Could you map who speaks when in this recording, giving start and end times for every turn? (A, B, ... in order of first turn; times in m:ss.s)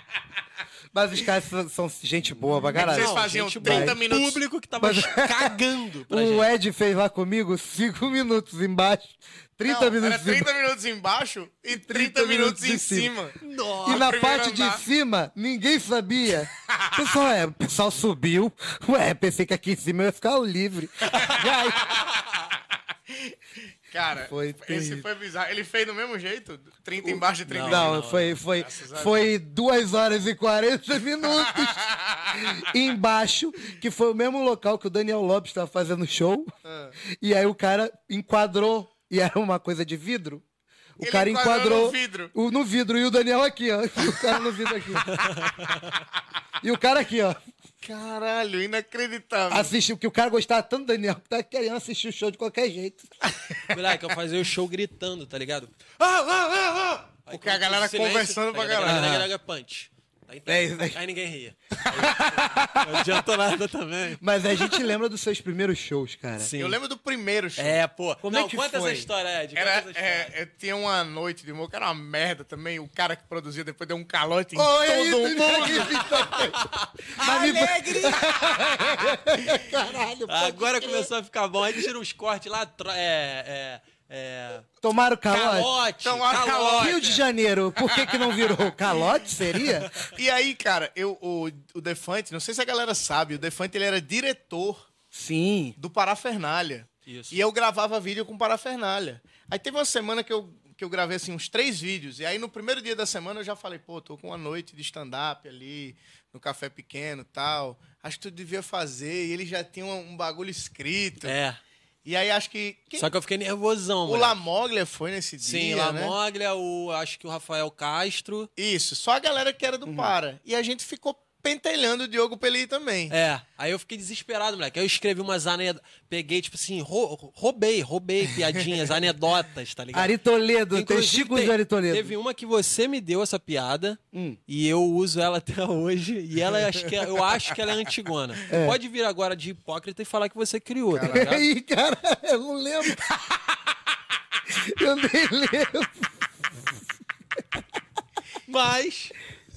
0:00.9-0:04.0 A
0:02.5-0:04.4 B
0:02.8-0:06.5 C
0:04.8-0:10.5 A
0:09.6-0:14.8 B
0:11.7-0:13.1 A
0:13.4-0:14.1 C
0:13.8-0:22.0 A
0:16.6-0:17.0 B
0:21.1-0:21.4 C
0:21.1-0:22.0 B
0:23.1-0:29.3 B
0:24.2-0:25.1 A
0:27.0-0:36.5 A
0:27.5-0:28.4 C
0:31.2-0:32.6 B
0:36.6-0:37.0 B
0:37.0-0:40.4 A
0:41.0-0:45.2 A
0:41.0-0:42.3 B
0:44.0-0:44.4 B
0:45.0-0:46.0 C
0:46.6-0:47.4 A
0:47.8-0:49.7 B
0:49.5-0:53.1 A
0:53.7-0:55.8 C
0:56.0-0:59.2 B
0:57.3-1:04.2 C
0:58.9-0:59.3 A
1:00.5-1:01.0 A
1:01.9-1:03.2 A
1:04.2-1:06.5 A
1:06.4-1:06.8 C
1:06.6-1:07.8 B
1:07.6-1:10.4 C
1:08.2-1:09.1 A
1:09.6-1:16.5 B
1:14.6-1:21.1 A
1:15.4-1:18.7 C
1:20.3-1:24.7 C
1:24.8-1:25.7 A
1:25.3-1:27.0 C
1:26.0-1:27.3 B
1:26.8-1:29.9 A
1:27.8-1:28.6 B
1:29.8-1:30.1 C
1:30.0-1:34.9 B
1:35.1-1:35.8 A
1:35.8-1:51.4 B
1:37.1-1:37.4 C
1:51.2-1:51.6 C
1:52.0-1:53.1 B
1:53.0-1:54.4 C
1:54.1-1:56.2 B
1:55.4-1:58.5 C
1:58.6-2:03.2 B
1:59.8-2:00.2 A
2:03.1-2:10.2 C
2:09.9-2:12.1 A
2:10.7-2:21.5 C
2:14.1-2:14.4 A
2:18.5-2:18.8 A
2:20.9-2:21.4 B
2:21.1-2:23.5 A
2:24.5-2:26.8 A
2:28.5-2:29.2 C